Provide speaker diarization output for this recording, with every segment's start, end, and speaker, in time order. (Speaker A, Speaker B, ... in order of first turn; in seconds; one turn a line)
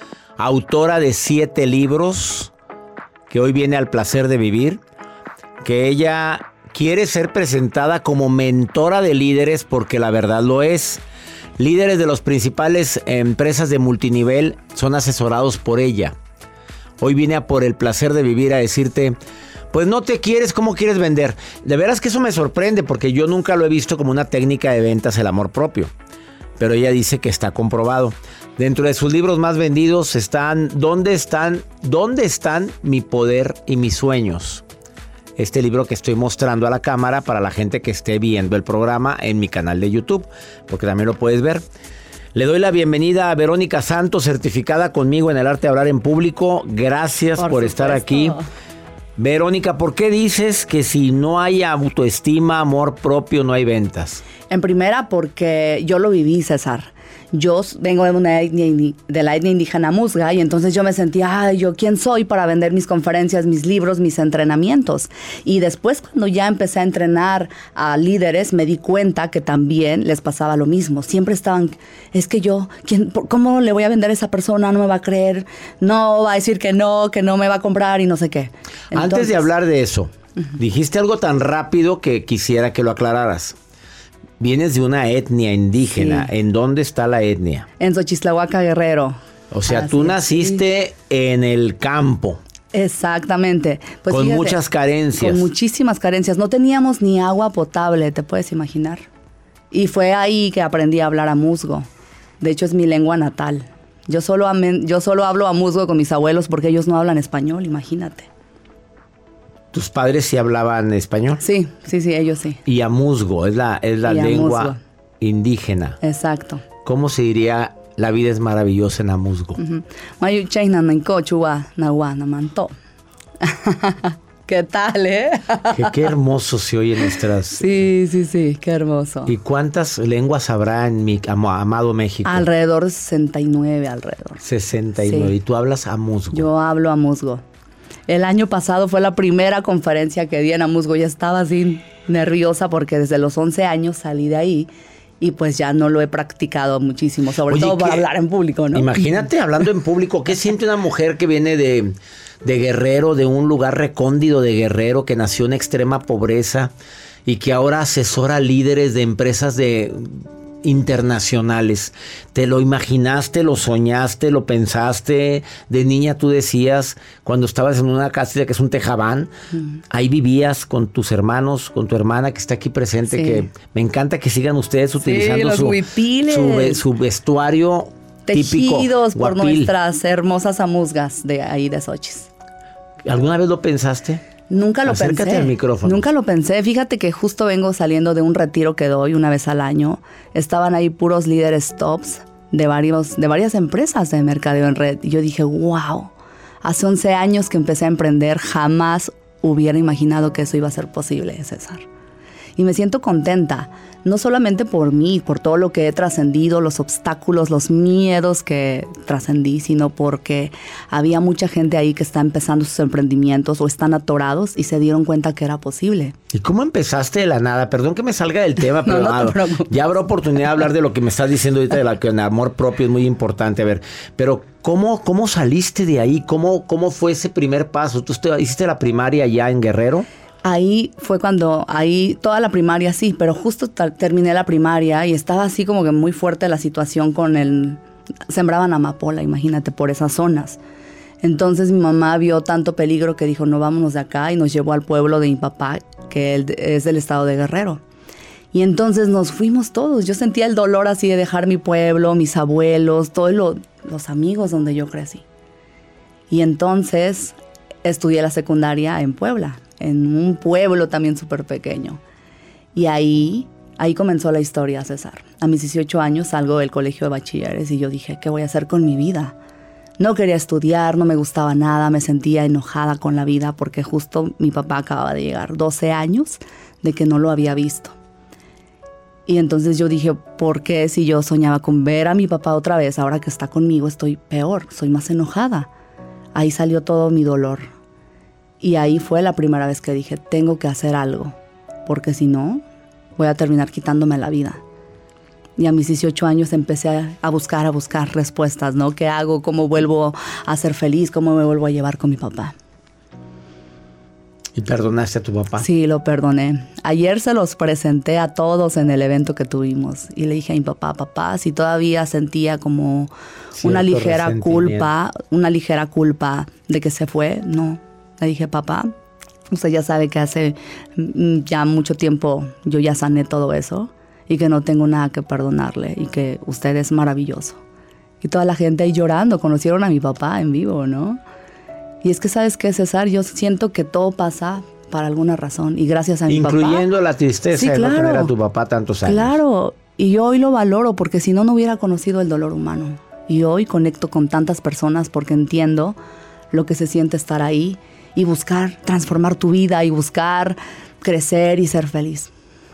Speaker A: 0.4-2.5
Speaker A: 3.3-4.8
Speaker A: 5.6-11.0
Speaker A: 11.6-16.2
Speaker A: 17.0-19.2
Speaker A: 19.7-25.9
Speaker A: 26.6-34.6
Speaker A: 35.4-41.6
Speaker A: 42.3-48.4
Speaker B: 47.4-48.4
Speaker A: 49.2-54.2
Speaker B: 54.5-79.5
Speaker A: 78.9-83.5
Speaker A: 84.4-87.7
Speaker B: 86.0-86.3
Speaker B: 87.8-90.6
Speaker A: 89.5-92.4
Speaker B: 92.7-94.6
Speaker A: 94.1-95.5
Speaker B: 95.2-99.0
Speaker B: 99.7-101.9
Speaker B: 102.4-108.3
Speaker A: 109.7-111.4
Speaker B: 111.4-112.6
Speaker A: 112.7-116.0
Speaker B: 114.0-114.8
Speaker B: 116.0-116.6
Speaker A: 116.8-119.6
Speaker B: 119.6-122.7
Speaker B: 123.4-125.9
Speaker A: 125.7-127.8
Speaker B: 127.6-129.3
Speaker A: 129.3-132.5
Speaker B: 132.2-134.4
Speaker A: 134.4-136.5
Speaker B: 135.0-135.3
Speaker B: 136.3-137.4
Speaker B: 138.1-144.7
Speaker B: 145.2-149.2
Speaker A: 147.5-148.0
Speaker A: 148.7-156.7
Speaker A: 157.2-169.3
Speaker A: 169.9-179.7
Speaker B: 173.1-173.5
Speaker B: 175.0-176.8
Speaker B: 178.2-182.3
Speaker A: 183.1-184.2
Speaker B: 184.5-196.1
Speaker A: 184.8-186.1
Speaker B: 196.6-201.8
Speaker B: 202.6-216.1
Speaker A: 216.3-230.1
Speaker B: 218.8-219.7
Speaker B: 230.4-240.6
Speaker B: 241.2-247.8
Speaker B: 248.5-255.2
Speaker B: 256.3-262.0
Speaker B: 262.7-269.3
Speaker B: 270.0-277.9
Speaker B: 279.3-285.7
Speaker B: 286.3-287.7
Speaker B: 288.6-291.3
Speaker B: 291.9-292.6
Speaker B: 293.1-294.6
Speaker B: 295.6-302.5
Speaker A: 304.5-305.6
Speaker B: 305.6-318.9
Speaker A: 313.6-314.9
Speaker B: 319.5-327.6
Speaker B: 328.2-331.2
Speaker B: 332.0-336.9
Speaker A: 336.3-339.4
Speaker B: 337.5-338.3
Speaker B: 339.0-346.0
Speaker B: 346.5-352.3